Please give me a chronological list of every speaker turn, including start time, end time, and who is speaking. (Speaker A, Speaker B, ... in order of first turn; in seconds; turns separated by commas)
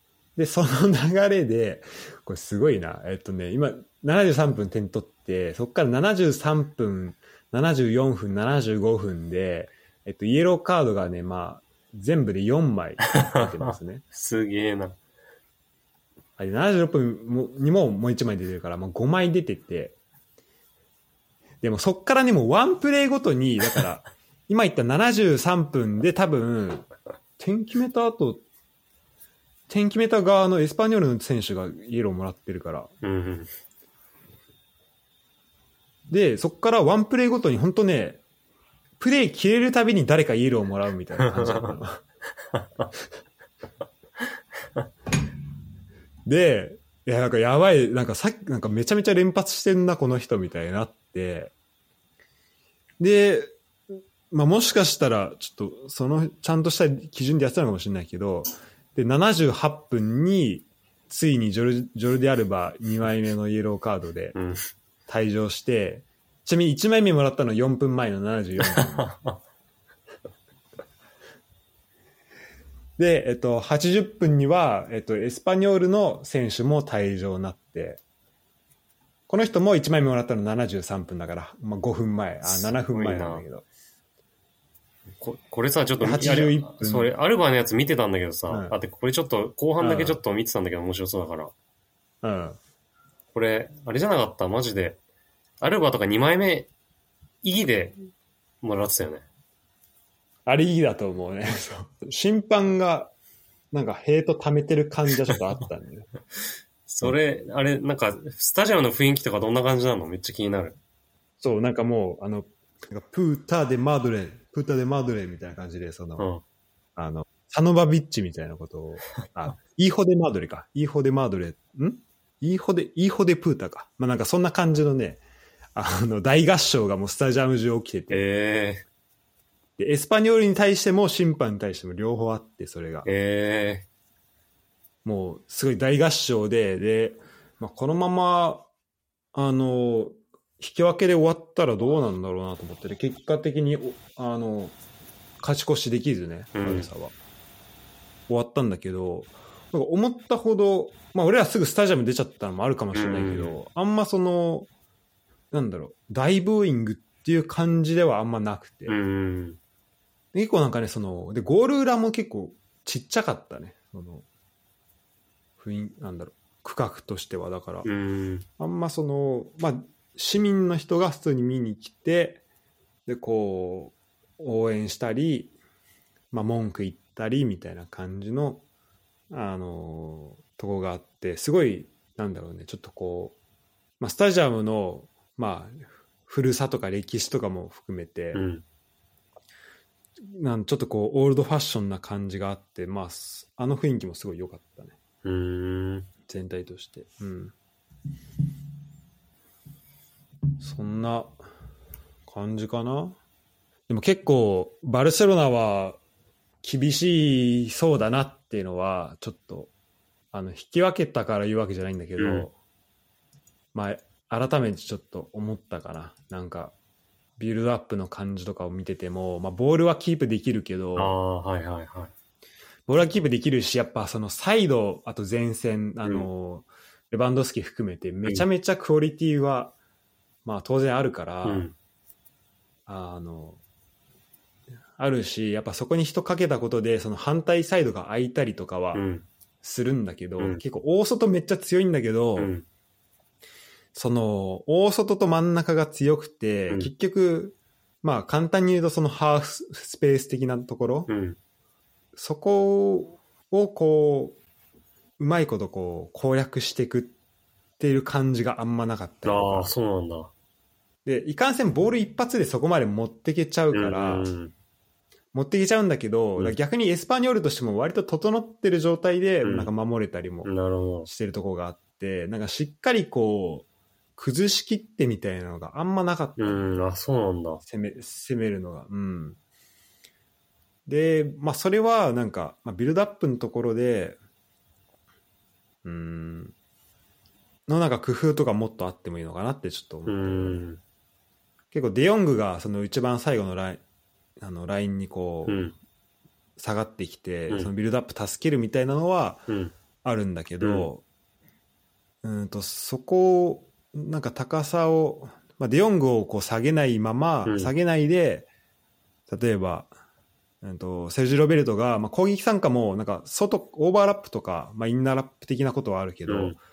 Speaker A: 0.4-14.0, Speaker B: 13.2-15.0, Speaker A: 16.4-20.0, Speaker A: 21.6-26.9, Speaker A: 27.4-28.4, Speaker A: 29.7-32.9, Speaker B: 33.0-33.5, Speaker A: 36.1-38.2, Speaker A: 39.0-42.0, Speaker B: 41.2-41.7, Speaker B: 42.5-42.9, Speaker A: 46.3-51.5, Speaker A: 53.0-53.5, Speaker A: 54.3-64.4, Speaker B: 64.3-64.6, Speaker A: 65.1-69.1, Speaker B: 68.7-69.4, Speaker A: 73.0-78.0, Speaker A: 79.3-83.7, Speaker B: 82.4-83.5, Speaker B: 85.2-91.5, Speaker A: 86.0-87.1, Speaker A: 89.8-90.2, Speaker A: 92.2-92.6, Speaker B: 93.3-95.0, Speaker B: 95.6-96.7, Speaker B: 97.4-98.0, Speaker B: 98.6-99.3, Speaker A: 100.5-103.1, Speaker A: 103.7-106.1, Speaker B: 106.9-110.8, Speaker A: 111.4-116.3, Speaker B: 116.2-116.4, Speaker A: 117.0-125.2, Speaker A: 125.8-128.2, Speaker B: 128.1-128.8, Speaker A: 129.8-133.1, Speaker B: 133.1-133.9, Speaker A: 135.1-138.7, Speaker A: 139.3-144.8, Speaker A: 145.4-147.1, Speaker B: 146.6-146.9, Speaker A: 148.3-154.7, Speaker B: 152.9-153.6, Speaker A: 155.5-159.0, Speaker B: 158.9-159.6, Speaker A: 160.3-164.3, Speaker A: 165.6-167.9, Speaker B: 167.8-168.5, Speaker A: 168.6-172.4, Speaker A: 173.1-175.5, Speaker A: 176.3-178.6, Speaker A: 179.3-183.4, Speaker A: 184.0-188.4, Speaker B: 188.3-188.6, Speaker A: 190.2-195.0, Speaker B: 195.2-196.1, Speaker A: 196.3-197.5, Speaker A: 200.6-201.4, Speaker A: 202.3-203.2, Speaker A: 203.9-206.0, Speaker A: 206.6-209.7, Speaker A: 210.3-212.5, Speaker B: 212.2-212.5, Speaker A: 213.7-216.8, Speaker A: 217.4-221.1, Speaker B: 221.0-222.1, Speaker A: 222.9-229.8, Speaker A: 230.4-231.7, Speaker B: 231.4-231.8, Speaker A: 232.9-233.6, Speaker A: 235.0-239.0, Speaker B: 238.9-239.3, Speaker A: 239.6-242.5, Speaker B: 242.4-242.7, Speaker A: 243.9-251.1, Speaker B: 251.1-251.4, Speaker A: 252.2-254.4, Speaker A: 255.2-257.1, Speaker A: 257.8-259.8, Speaker B: 259.2-260.3, Speaker A: 261.1-264.3, Speaker B: 263.7-264.5, Speaker A: 265.3-270.5, Speaker B: 269.4-269.7, Speaker B: 270.4-271.1, Speaker A: 271.0-276.6, Speaker B: 276.4-277.6, Speaker A: 277.6-279.4, Speaker A: 280.9-284.2, Speaker A: 285.8-286.5, Speaker A: 287.7-290.6, Speaker B: 290.1-290.8, Speaker A: 291.7-293.8, Speaker A: 294.4-295.6, Speaker B: 295.5-295.8, Speaker A: 296.6-299.4, Speaker B: 299.5-299.7, Speaker A: 300.0-301.0, Speaker B: 300.6-300.9, Speaker A: 302.2-308.5, Speaker B: 307.5-307.7, Speaker A: 309.3-309.9, Speaker A: 310.6-316.6, Speaker B: 316.3-316.6